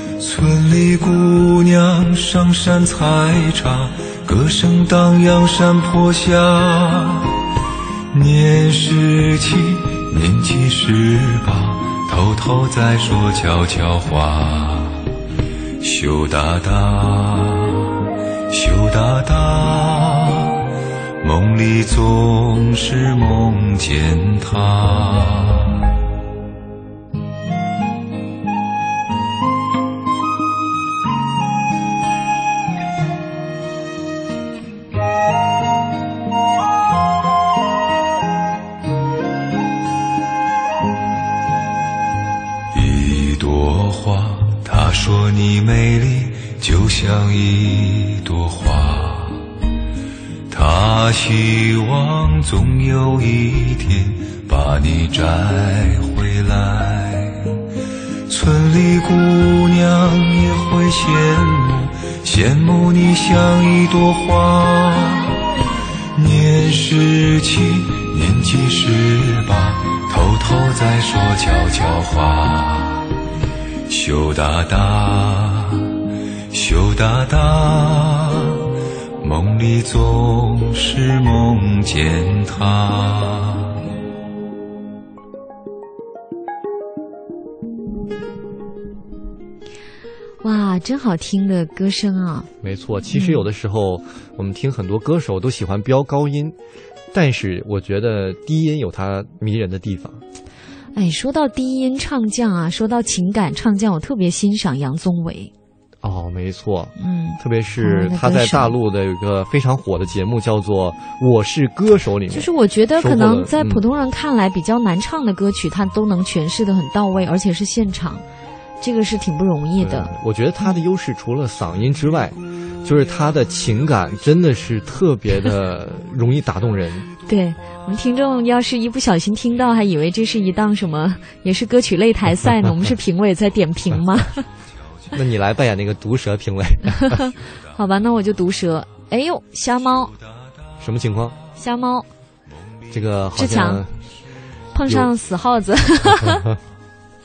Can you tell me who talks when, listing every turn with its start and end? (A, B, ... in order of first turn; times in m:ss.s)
0:00.2-0:07.4 A
0:08.1-0:15.1 A
0:15.8-0:18.0 A
0:18.5-0:20.6 A
0:21.2-0:25.8 A
0:42.7-0:49.5 A
0:50.5-0:57.6 A
0:58.3-1:05.4 A
1:06.2-1:13.1 A
1:13.9-1:16.0 A
1:16.5-1:18.6 A
1:19.2-1:23.8 A
1:30.4-1:32.5 B
1:32.6-1:36.6 C
1:33.1-1:33.4 B
1:37.1-1:40.2 C
1:41.0-1:45.5 B
1:46.0-1:53.8 C
1:47.0-1:48.8 B
1:52.3-1:58.2 B
1:58.8-2:00.8 B
1:59.8-2:07.1 C
2:07.3-2:14.5 B
2:15.1-2:17.2 C
2:16.9-2:20.1 B
2:20.8-2:21.4 C
2:21.6-2:22.1 B
2:22.9-2:23.9 C
2:23.4-2:23.8 B
2:24.7-2:26.4 B